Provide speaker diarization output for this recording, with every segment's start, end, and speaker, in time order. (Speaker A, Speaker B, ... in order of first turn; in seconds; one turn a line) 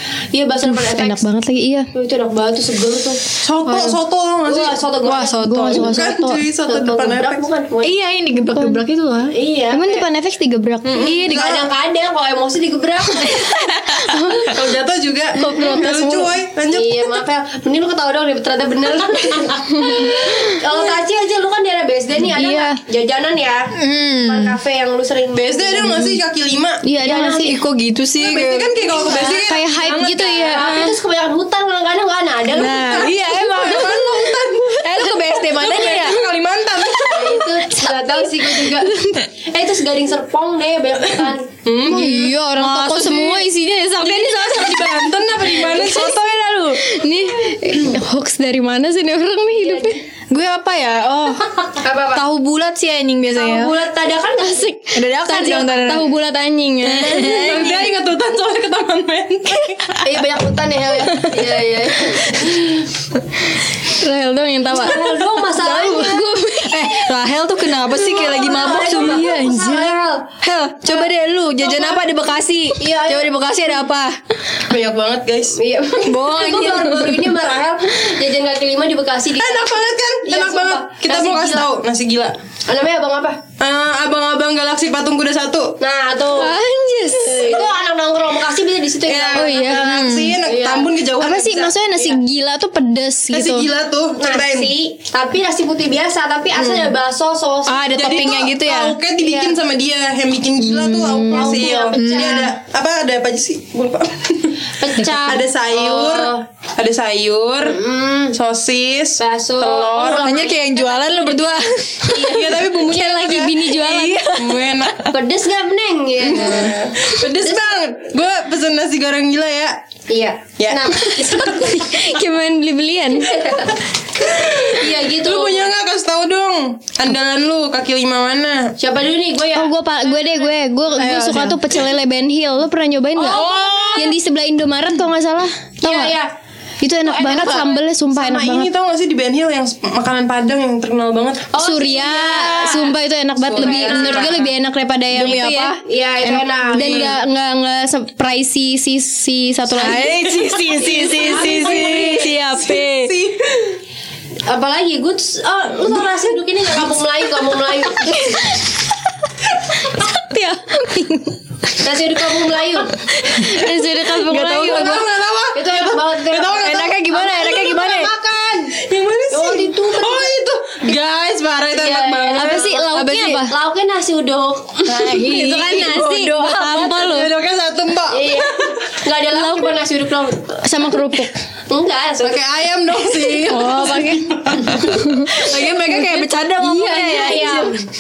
Speaker A: 0.3-1.3
Speaker B: 0.6-1.9
Speaker A: 1.9-5.7
Speaker C: 3.4-4.8
Speaker D: 5.0-6.0
Speaker B: 5.4-6.4
Speaker C: 5.7-7.4
Speaker A: 6.7-7.9
Speaker D: 7.8-9.3
Speaker B: 8.5-8.8
Speaker A: 9.3-10.1
Speaker B: 9.7-11.4
Speaker C: 10.9-11.7
Speaker A: 10.9-13.4
Speaker B: 13.3-14.6
Speaker C: 14.5-17.2
Speaker B: 15.4-16.3
Speaker A: 16.7-26.0
Speaker B: 22.3-22.8
Speaker D: 23.7-24.6
Speaker C: 25.4-26.8
Speaker B: 26.8-27.5
Speaker A: 27.0-27.5
Speaker D: 27.1-28.8
Speaker C: 28.2-30.7
Speaker A: 28.9-29.5
Speaker B: 28.9-30.9
Speaker A: 30.5-33.1
Speaker D: 32.6-34.3
Speaker C: 32.9-37.5
Speaker D: 34.8-36.2
Speaker A: 37.1-38.9
Speaker B: 38.9-39.2
Speaker A: 39.5-41.5
Speaker C: 41.6-42.1
Speaker D: 41.9-43.5
Speaker B: 41.9-46.2
Speaker C: 44.1-46.2
Speaker D: 45.7-46.8
Speaker B: 46.7-50.0
Speaker A: 49.6-50.0
Speaker D: 50.3-53.7
Speaker A: 51.8-52.2
Speaker A: 53.3-54.7
Speaker B: 54.4-57.5
Speaker D: 54.9-56.1
Speaker D: 56.8-57.9
Speaker C: 57.1-60.0
Speaker A: 60.0-62.6
Speaker B: 63.9-65.0
Speaker A: 64.7-66.1
Speaker D: 65.5-69.3
Speaker B: 65.9-67.0
Speaker A: 67.9-70.3
Speaker B: 68.9-70.0
Speaker D: 70.4-74.2
Speaker A: 71.6-72.0
Speaker A: 72.8-73.3
Speaker C: 74.7-75.6
Speaker A: 75.6-81.7
Speaker D: 76.1-77.3
Speaker C: 79.4-82.4
Speaker A: 82.7-83.4
Speaker C: 83.6-85.8
Speaker A: 85.8-86.5
Speaker B: 86.4-87.7
Speaker A: 87.3-89.7
Speaker C: 89.0-91.8
Speaker B: 89.3-90.0
Speaker D: 89.8-90.4
Speaker A: 90.4-90.9
Speaker B: 91.2-93.7
Speaker C: 93.3-94.7
Speaker A: 94.2-97.8
Speaker D: 97.7-99.0
Speaker C: 98.0-104.6
Speaker A: 99.2-99.6
Speaker B: 100.6-101.6
Speaker A: 101.3-102.5
Speaker D: 101.8-102.5
Speaker A: 104.8-106.4
Speaker C: 105.1-107.8
Speaker A: 107.6-108.4
Speaker C: 108.3-110.3
Speaker A: 109.2-111.4
Speaker D: 110.2-112.3
Speaker A: 112.0-112.6
Speaker C: 112.2-115.1
Speaker B: 112.7-114.3
Speaker D: 113.8-114.6
Speaker A: 115.1-116.8
Speaker C: 116.2-119.8
Speaker A: 120.1-121.7
Speaker C: 120.6-121.0
Speaker B: 121.3-123.3
Speaker A: 123.2-125.7
Speaker C: 125.2-128.7
Speaker A: 128.8-130.5
Speaker B: 129.6-136.1
Speaker D: 131.0-131.6
Speaker C: 133.2-134.1
Speaker A: 133.2-134.1
Speaker A: 135.8-136.3
Speaker B: 136.8-138.7
Speaker A: 137.1-137.8
Speaker C: 138.1-141.5
Speaker A: 141.5-144.5
Speaker B: 141.6-153.1
Speaker D: 143.6-144.3
Speaker D: 145.1-145.8
Speaker A: 145.9-147.2
Speaker C: 146.8-147.1
Speaker D: 149.8-152.8
Speaker C: 150.6-153.8
Speaker A: 150.9-152.3
Speaker A: 154.5-158.4
Speaker B: 158.1-158.6
Speaker B: 159.6-161.4
Speaker A: 161.8-163.0
Speaker B: 162.9-165.1
Speaker C: 164.3-172.7
Speaker A: 165.5-167.4
Speaker D: 166.6-168.1
Speaker A: 169.3-170.4
Speaker A: 171.7-175.4
Speaker B: 172.3-173.5
Speaker D: 174.9-176.6
Speaker B: 174.9-177.3
Speaker A: 175.9-176.5
Speaker C: 176.8-178.5
Speaker A: 178.1-180.6
Speaker B: 179.3-179.8
Speaker B: 180.6-181.3
Speaker A: 181.7-183.6
Speaker C: 182.2-184.8
Speaker B: 183.4-185.3
Speaker D: 185.3-187.8
Speaker B: 186.6-187.6
Speaker A: 186.8-187.9